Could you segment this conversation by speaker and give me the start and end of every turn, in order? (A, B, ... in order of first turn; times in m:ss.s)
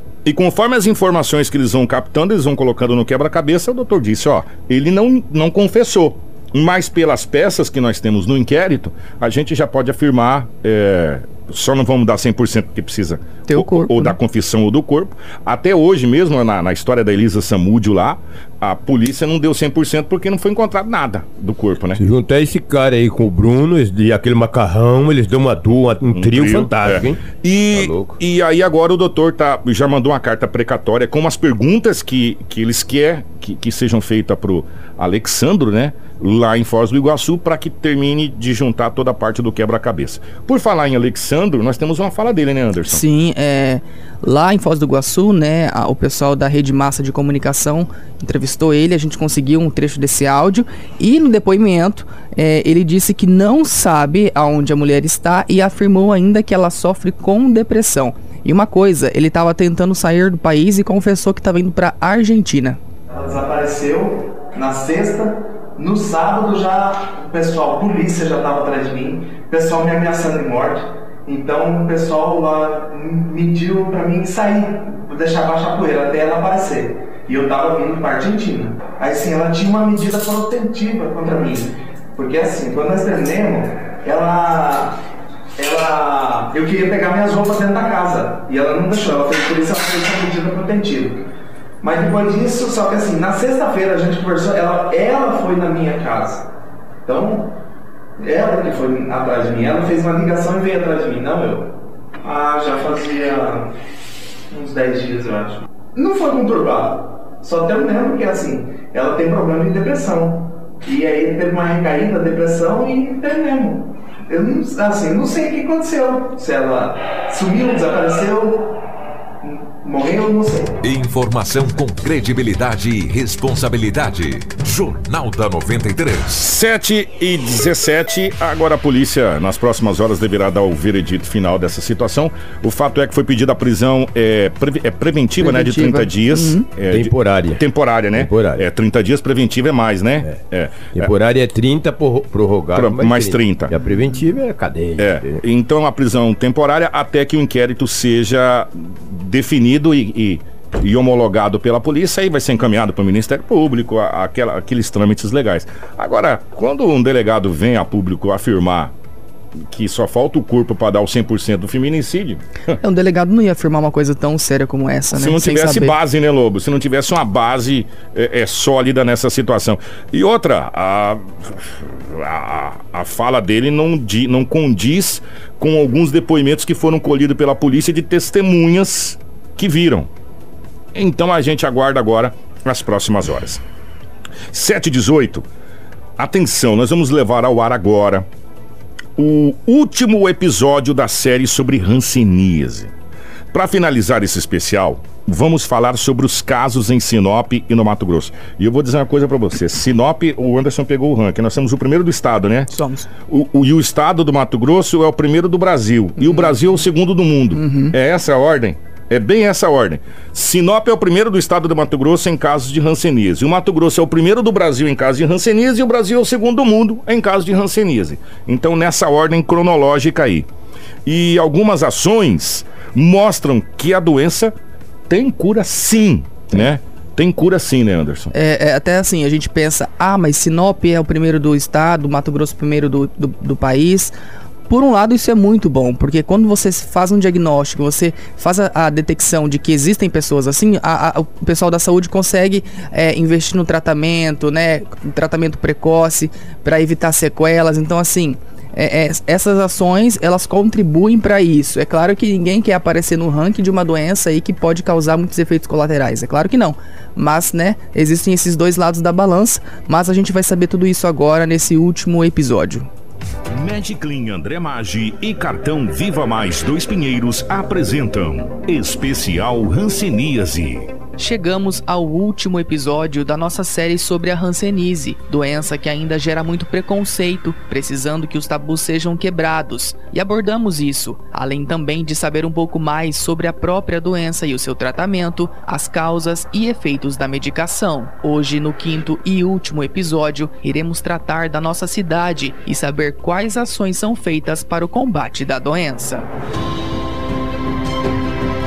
0:00.2-0:22.0 A
0:13.5-0:14.2 B
0:22.0-0:28.2 C
0:26.1-0:43.0 A
0:42.9-1:02.8 B
1:03.1-1:25.0 D
1:25.6-1:31.2 D
1:31.8-1:36.5 D
1:37.0-1:37.6 D
1:38.2-1:41.7 D
1:42.2-1:43.7 D
1:44.5-1:58.7 D
1:59.4-2:00.8 D
2:00.8-2:06.4 E
2:06.3-2:21.1 A
2:15.4-2:16.7 B
2:16.9-2:17.6 C
2:18.1-2:18.6 C
2:20.9-2:25.4 C
2:22.8-2:23.7 A
2:25.0-2:38.9 A
2:39.7-2:42.4 A
2:42.8-2:46.0 B
2:45.1-3:00.1 A
3:01.0-3:03.6 A
3:04.5-3:05.5 A
3:06.2-3:08.3 A
3:09.2-3:12.9 A
3:13.5-3:22.7 A
3:22.7-3:23.1 B
3:23.3-3:40.5 A
3:26.2-3:26.6 B
3:27.5-3:27.9 B
3:41.0-3:44.5 A
3:45.1-3:48.3 A
3:48.3-3:54.1 B
3:54.7-4:22.9 B
4:23.5-4:30.9 A
4:31.2-4:56.3 B